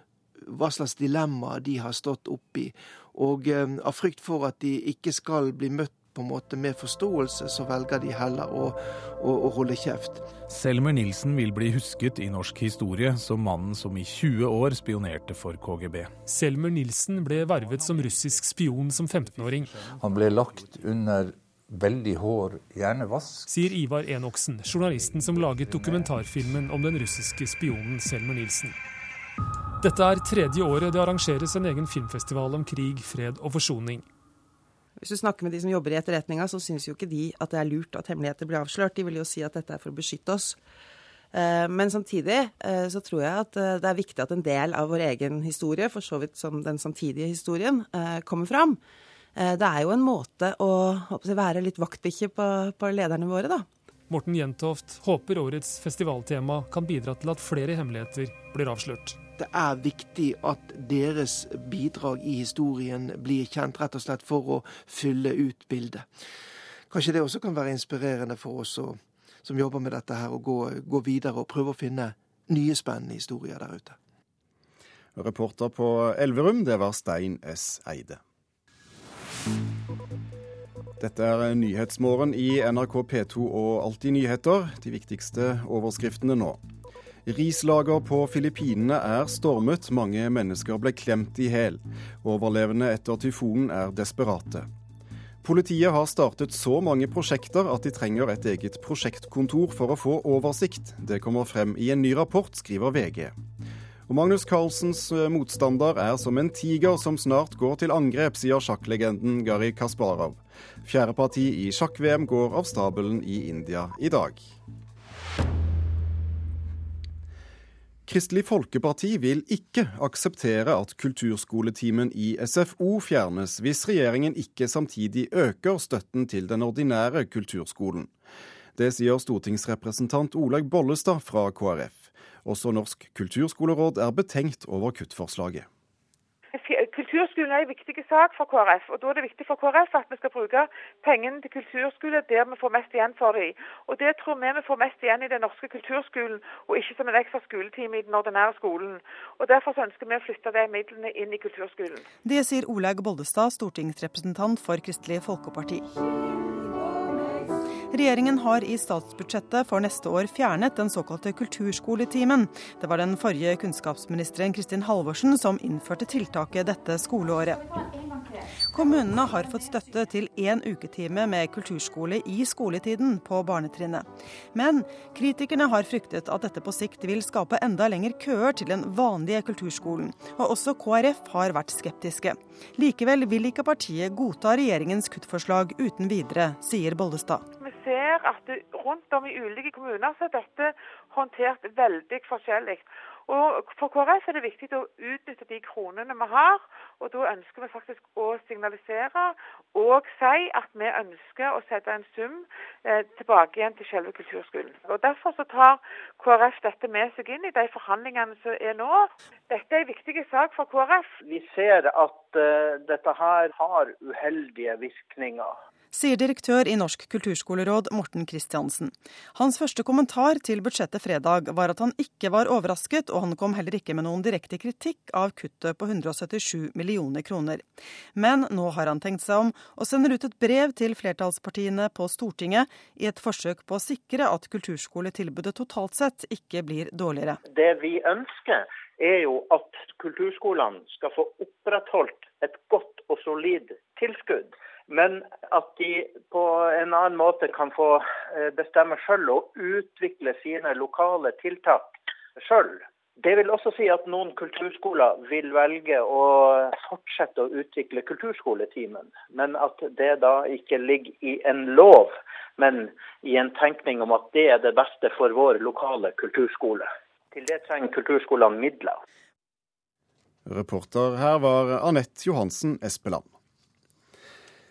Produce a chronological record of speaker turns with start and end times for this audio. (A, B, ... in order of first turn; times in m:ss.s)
0:00.5-0:10.3 A
0:10.4-0:16.1 B
0:16.3-0:19.8 C
0:19.9-0:23.6 D
0:23.5-0:28.8 C
0:25.1-0:26.1 D
0:29.8-0:34.0 C
0:35.0-0:40.6 E
0:41.3-0:48.8 E
0:49.4-0:53.7 E
0:54.1-0:59.2 C
0:59.4-1:06.1 A
1:06.9-1:14.0 A
1:15.2-1:18.2 F
1:21.0-1:26.6 F
1:27.2-1:34.7 F
1:35.4-1:43.3 F
1:44.1-1:54.4 F
1:58.1-2:08.1 F
2:08.8-2:15.7 F
2:16.5-2:32.1 G
2:32.2-2:35.9 H
2:37.9-2:47.8 H
2:48.7-3:07.4 H
3:07.6-3:31.1 G
3:31.2-3:35.6 I
3:35.9-3:47.6 H
3:48.1-3:57.4 H
3:57.5-4:29.0 I
4:30.5-4:33.3 F